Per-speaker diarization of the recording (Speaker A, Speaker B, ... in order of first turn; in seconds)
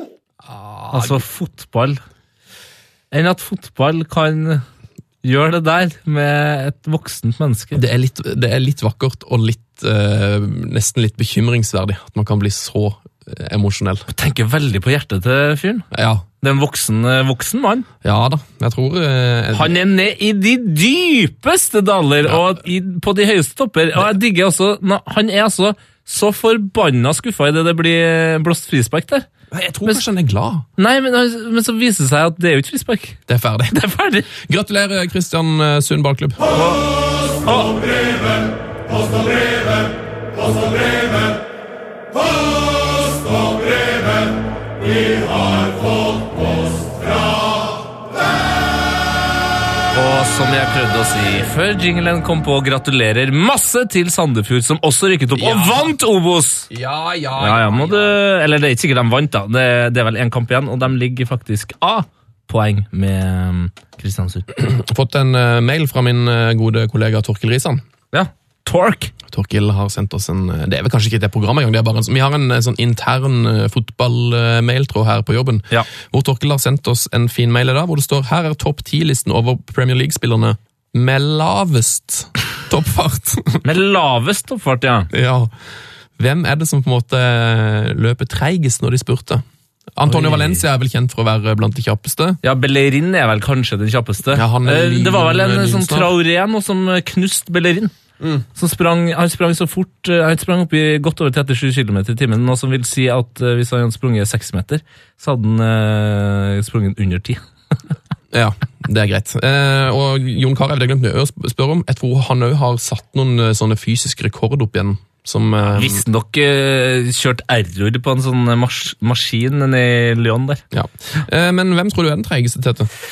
Speaker A: 0.5-1.2, 7.8-14.1, 15.9-16.2, 18.0-19.8, 29.5-30.7, 33.3-36.4, 55.4-55.9, 56.7-58.2, 64.5-67.8, 69.3-83.6, 85.1-85.5, 86.2-89.4, 90.0-92.4, 94.3-96.1, 98.2-98.5, 108.3-116.0, 120.7-122.9
Speaker B: 0.9-2.0, 3.1-4.6, 5.2-7.8, 14.1-15.9, 16.4-17.9, 19.5-29.3, 30.8-33.2, 33.7-34.3, 36.5-36.9, 37.4-37.9, 49.9-56.7, 57.4-64.5, 68.1-69.1, 83.6-85.1, 90.1-90.6, 92.4-97.9, 98.6-107.4, 115.8-120.6